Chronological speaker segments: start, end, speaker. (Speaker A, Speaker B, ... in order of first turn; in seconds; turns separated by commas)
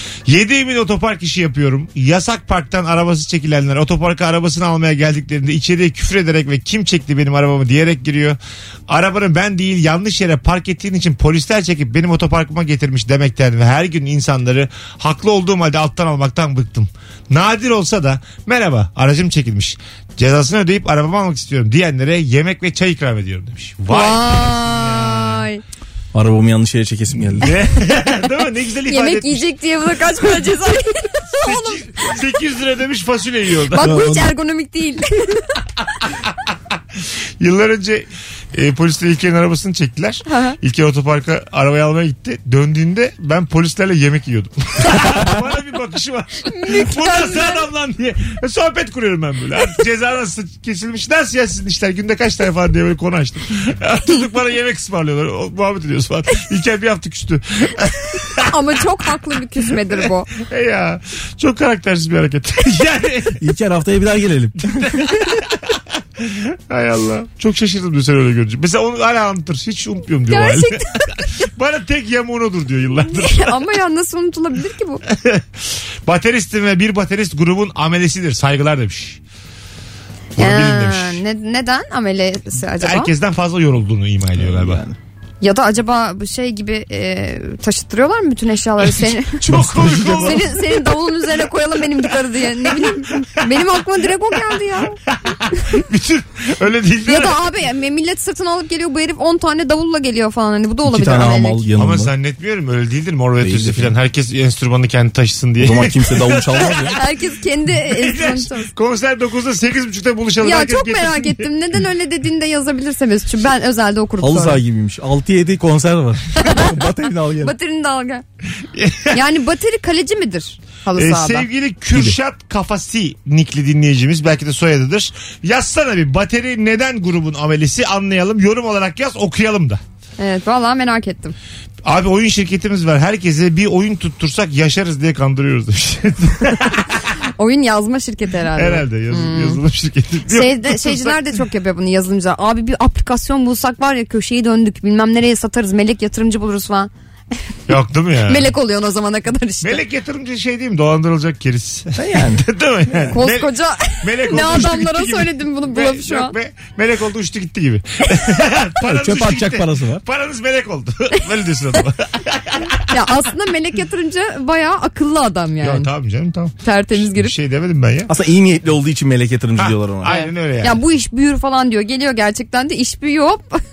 Speaker A: 0.2-25.4, Speaker B: 23.9-25.6, Speaker C: 26.1-27.5, Speaker A: 27.1-29.5, Speaker B: 28.9-32.1, Speaker A: 31.3-33.9, Speaker B: 33.7-35.5, Speaker C: 33.8-34.3, Speaker A: 37.4-58.5, Speaker B: 40.3-40.5, Speaker B: 46.5-47.6, Speaker B: 58.4-60.3, Speaker A: 60.4-63.4, Speaker C: 63.4-65.0, Speaker A: 64.7-73.5, Speaker B: 70.3-71.3, Speaker B: 73.2-75.0, Speaker A: 75.1-79.2, Speaker A: 80.4-81.2, Speaker B: 80.4-83.1, Speaker A: 82.8-84.8, Speaker C: 84.4-85.0, Speaker B: 85.4-95.0, Speaker A: 89.4-90.5, Speaker C: 89.5-90.3, Speaker A: 92.8-93.5, Speaker A: 95.1-97.3, Speaker B: 95.5-95.8, Speaker B: 97.0-101.6, Speaker C: 100.8-102.1, Speaker A: 101.7-106.9, Speaker C: 103.4-103.9, Speaker C: 105.6-107.0, Speaker B: 106.9-108.7, Speaker A: 107.8-111.5, Speaker B: 110.4-114.6, Speaker C: 114.2-117.5, Speaker B: 116.4-116.8, Speaker B: 117.4-118.2, Speaker A: 118.6-119.2, Speaker B: 119.1-121.5, Speaker A: 120.9-129.8, Speaker B: 130.2-131.3, Speaker A: 131.8-137.1, Speaker B: 137.2-139.6, Speaker A: 138.6-141.2, Speaker B: 140.3-146.9, Speaker A: 147.7-148.5, Speaker B: 148.2-149.8, Speaker A: 149.6-162.9, Speaker C: 152.0-152.4, Speaker B: 153.1-156.3, Speaker C: 158.9-160.0, Speaker B: 162.9-165.9, Speaker A: 165.6-168.1, Speaker B: 166.6-167.3, Speaker C: 168.1-170.1, Speaker A: 169.6-170.8, Speaker B: 170.1-173.6